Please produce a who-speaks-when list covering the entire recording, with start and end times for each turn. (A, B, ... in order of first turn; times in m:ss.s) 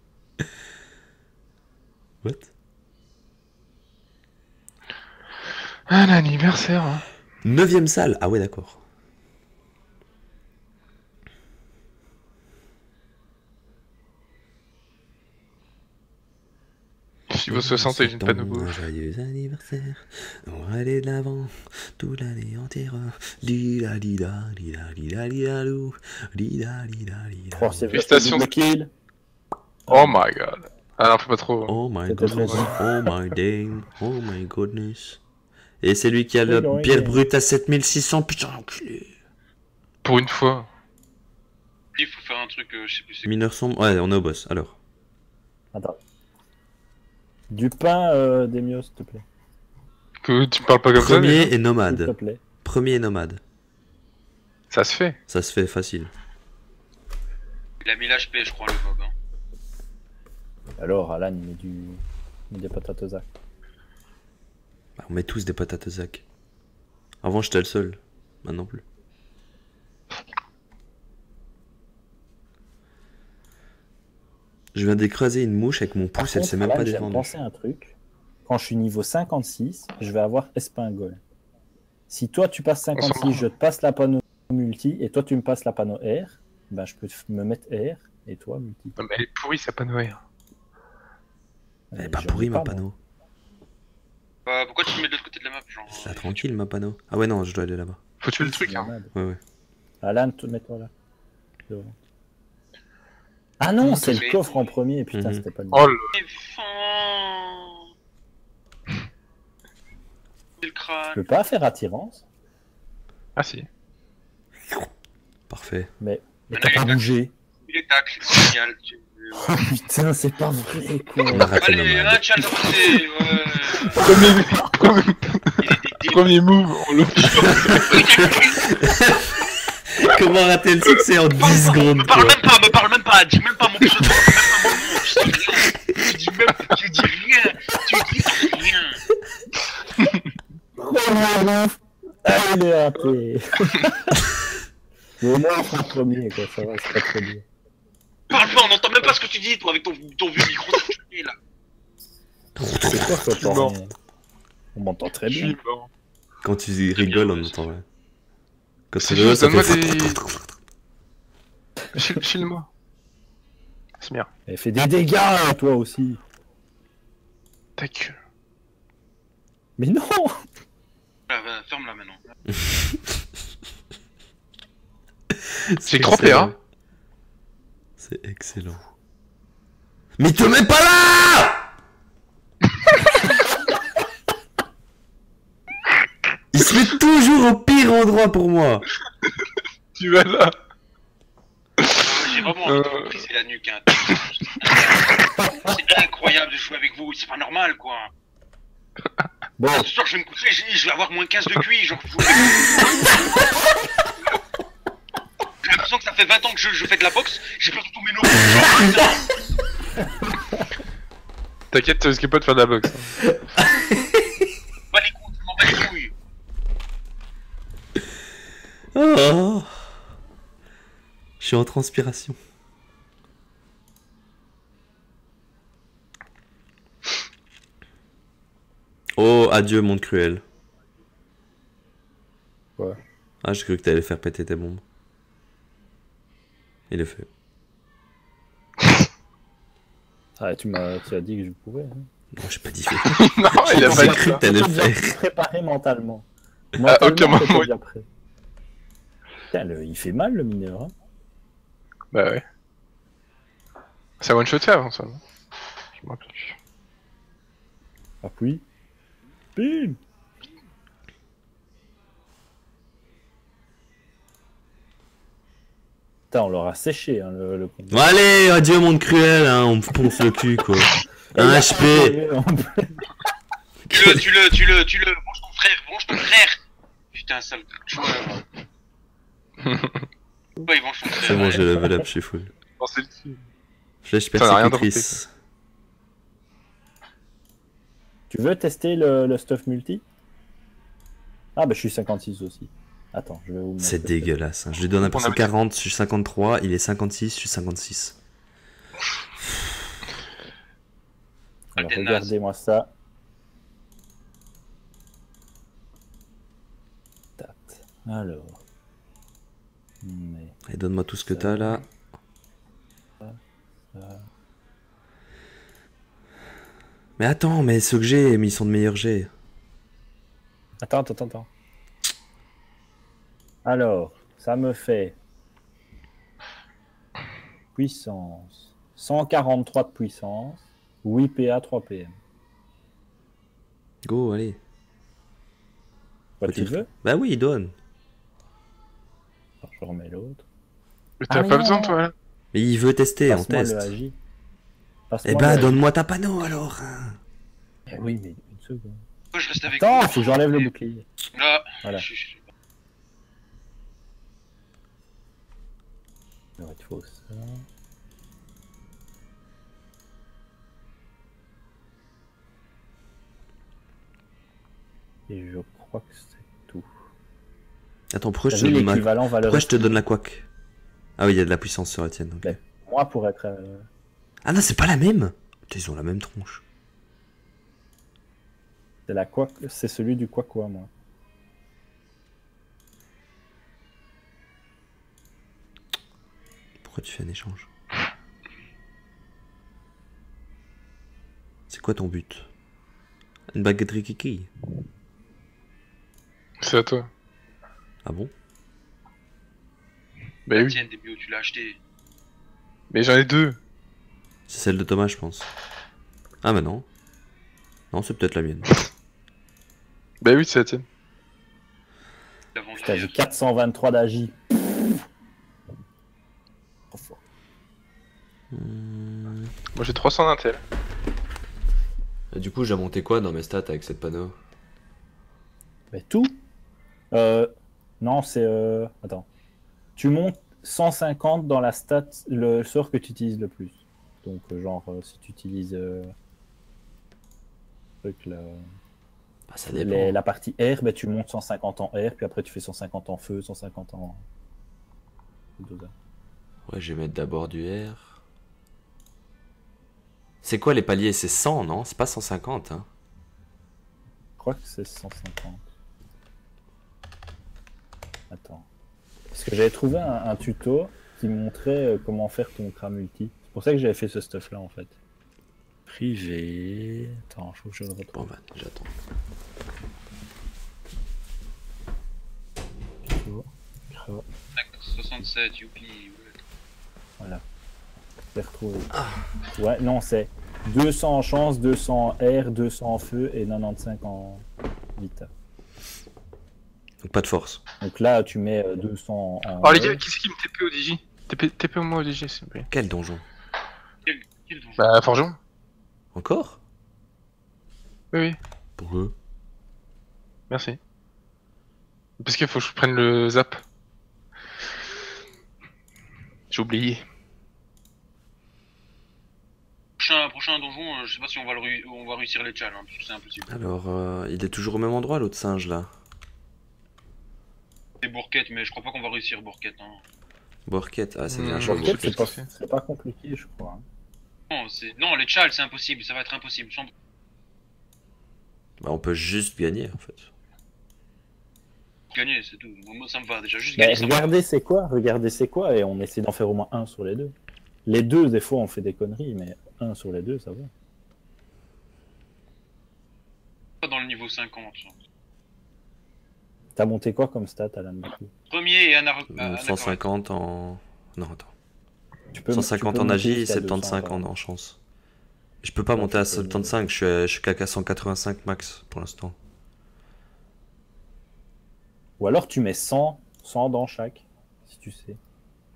0:02.2-0:02.5 A
0:05.9-0:07.0 B
0:07.4-0:08.8 A
0:17.3-0:18.8 B
0:17.5-0:28.0 A
0:27.5-0:28.9 C
0:27.9-0:28.5 B
0:29.9-0:30.2 C
0:29.9-0:31.8 B
0:31.7-0:35.2 A
0:32.1-0:32.8 C
0:35.8-0:39.1 A
0:36.5-0:37.2 C
0:40.0-0:40.7 B
0:42.0-0:43.3 D
0:43.2-0:44.8 A
0:47.5-0:49.2 C
0:50.2-0:51.5 B
0:51.0-0:53.4 A
0:51.9-0:52.4 C
0:54.7-0:55.2 B
0:55.3-0:56.1 A
0:57.8-0:59.1 D
1:00.8-1:03.3 C
1:05.0-1:06.2 A
1:07.2-1:08.8 A
1:14.7-1:17.3 A
1:16.2-1:17.9 C
1:18.5-1:21.2 C
1:22.1-1:29.0 C
1:23.0-1:23.5 B
1:29.0-1:30.2 B
1:31.9-1:32.8 C
1:32.0-1:33.0 A
1:34.5-1:36.4 D
1:35.9-1:38.0 A
1:38.2-1:38.9 B
1:38.4-1:39.1 C
1:40.0-1:40.9 C
1:41.7-1:42.0 C
1:43.6-1:46.0 C
1:43.8-1:44.2 B
1:44.0-1:44.8 D
1:45.1-1:45.4 A
1:45.7-1:46.1 B
1:46.1-1:47.8 D
1:50.6-1:51.3 D
1:51.1-1:52.2 C
1:53.4-1:53.7 B
1:55.5-1:55.9 A
1:56.0-1:57.3 C
1:56.5-1:57.1 D
1:57.7-1:59.7 D
1:59.4-2:01.5 C
2:01.3-2:02.6 A
2:01.6-2:04.1 D
2:03.8-2:04.7 C
2:04.0-2:08.1 B
2:05.6-2:06.4 D
2:07.1-2:08.8 D
2:07.3-2:09.4 A
2:09.9-2:12.4 A
2:11.4-2:19.0 D
2:20.8-2:24.2 C
2:25.2-2:27.4 C
2:28.3-2:31.4 D
2:32.6-2:33.3 A
2:32.8-2:33.9 C
2:33.4-2:33.8 B
2:34.8-2:35.6 C
2:35.3-2:35.9 B
2:36.4-2:37.8 A
2:37.0-2:37.6 D
2:38.9-2:40.4 A
2:39.0-2:40.2 B
2:42.0-2:42.7 B
2:44.0-2:44.3 B
2:44.5-2:46.2 C
2:47.8-2:48.2 B
2:49.8-2:50.4 C
2:51.3-2:52.2 D
2:55.3-2:56.6 A
2:55.9-2:56.5 B
2:58.0-2:58.9 A
3:00.2-3:01.7 A
3:06.5-3:08.9 A
3:10.0-3:10.6 B
3:11.8-3:12.1 B
3:12.0-3:18.1 D
3:12.6-3:13.2 B
3:19.6-3:19.9 C
3:19.8-3:23.4 D
3:25.6-3:29.4 D
3:28.4-3:29.0 A
3:31.7-3:33.2 B
3:33.3-3:34.3 A
3:34.9-3:36.1 D
3:38.9-3:39.9 A
3:41.4-3:42.4 A
3:49.2-3:50.4 A
3:53.4-3:54.8 A
3:56.9-3:57.3 A
4:00.4-4:02.1 C
4:02.3-4:05.2 A
4:03.0-4:04.4 B
4:03.7-4:08.1 C
4:06.9-4:07.7 B
4:09.5-4:10.9 C
4:12.1-4:12.4 B
4:14.2-4:15.2 B
4:16.0-4:16.6 B
4:18.2-4:18.6 C
4:19.6-4:20.0 C
4:26.3-4:28.1 C
4:27.9-4:32.2 A
4:31.3-4:33.0 C
4:33.9-4:34.3 A
4:33.9-4:36.6 D
4:37.1-4:38.5 D
4:39.6-4:40.0 B
4:40.7-4:41.6 D
4:41.2-4:42.5 A
4:42.8-4:43.4 B
4:44.0-4:45.3 A
4:44.4-4:45.2 B
4:48.3-4:50.0 C
4:51.6-4:54.3 C
4:53.8-4:58.2 A
4:55.0-4:55.5 B
5:01.7-5:02.9 C
5:01.8-5:02.3 D
5:07.4-5:08.6 C
5:10.0-5:10.6 C
5:10.7-5:11.8 A
5:11.3-5:11.8 C
5:13.9-5:14.2 C
5:17.2-5:19.3 A
5:20.8-5:21.5 C
5:23.6-5:25.2 C
5:27.8-5:32.2 C
5:34.0-5:34.6 A
5:36.4-5:36.9 C
5:36.5-5:37.8 A
5:39.6-5:40.4 C
5:41.2-5:42.1 B
5:41.3-5:42.0 C
5:42.5-5:43.9 A
5:43.3-5:44.2 C
5:45.1-5:45.8 C
5:45.2-5:47.2 A
5:47.9-5:49.0 C
5:49.3-5:50.7 D
5:49.7-5:51.1 C
5:51.3-5:52.5 D
5:56.6-5:57.7 C
6:05.3-6:06.9 C
6:08.1-6:10.5 A
6:08.5-6:09.9 C
6:11.2-6:12.6 A
6:12.4-6:13.9 C
6:14.4-6:16.6 A
6:19.1-6:20.9 C
6:26.8-6:27.7 A
6:31.7-6:32.5 A
6:33.5-6:34.5 A
6:36.6-6:37.1 B
6:38.0-6:38.3 A
6:40.5-6:40.8 B
6:40.6-6:41.8 D
6:42.9-6:43.6 B
6:44.5-6:45.5 A
6:46.4-6:46.9 A
6:47.9-6:48.7 A
6:50.2-6:50.8 B
6:52.5-6:53.2 D
6:52.8-6:54.4 C
6:56.9-6:57.2 C
6:58.5-6:59.5 A
6:59.7-7:00.6 B
7:02.3-7:04.4 A
7:05.9-7:06.4 C
7:07.1-7:09.3 C
7:10.0-7:16.1 C
7:18.0-7:18.7 C
7:19.5-7:20.2 A
7:19.7-7:24.2 C
7:25.6-7:25.9 C
7:26.7-7:28.2 A
7:30.4-7:32.9 A
7:34.4-7:35.7 C
7:38.3-7:38.7 C
7:39.3-7:45.0 C
7:45.9-7:48.3 C
7:48.1-7:48.9 A
7:53.1-7:54.2 C
7:54.6-7:56.4 D
7:58.3-7:58.9 C
7:59.6-8:04.4 C
8:05.0-8:05.3 C
8:07.0-8:07.6 A
8:07.8-8:10.0 C
8:09.6-8:12.7 B
8:12.7-8:13.2 A
8:14.1-8:14.9 D
8:14.8-8:15.4 B
8:16.1-8:16.6 A
8:18.1-8:18.4 B
8:18.8-8:19.2 A
8:20.5-8:20.8 B
8:22.2-8:23.6 B
8:26.5-8:27.0 B
8:30.0-8:33.6 D
8:33.5-8:35.9 A
8:38.0-8:40.0 D
8:40.7-8:42.3 A
8:41.3-8:42.4 B
8:41.6-8:43.8 C
8:44.5-8:46.9 D
8:48.8-8:50.3 A
8:52.1-8:54.4 D
8:53.8-8:57.4 C
8:57.9-9:00.7 C
9:03.8-9:05.0 D
9:06.8-9:08.3 C
9:08.5-9:10.0 D
9:09.3-9:11.5 A
9:12.3-9:14.2 C
9:12.5-9:14.8 A
9:15.6-9:19.4 A
9:16.0-9:16.8 C
9:22.2-9:25.2 C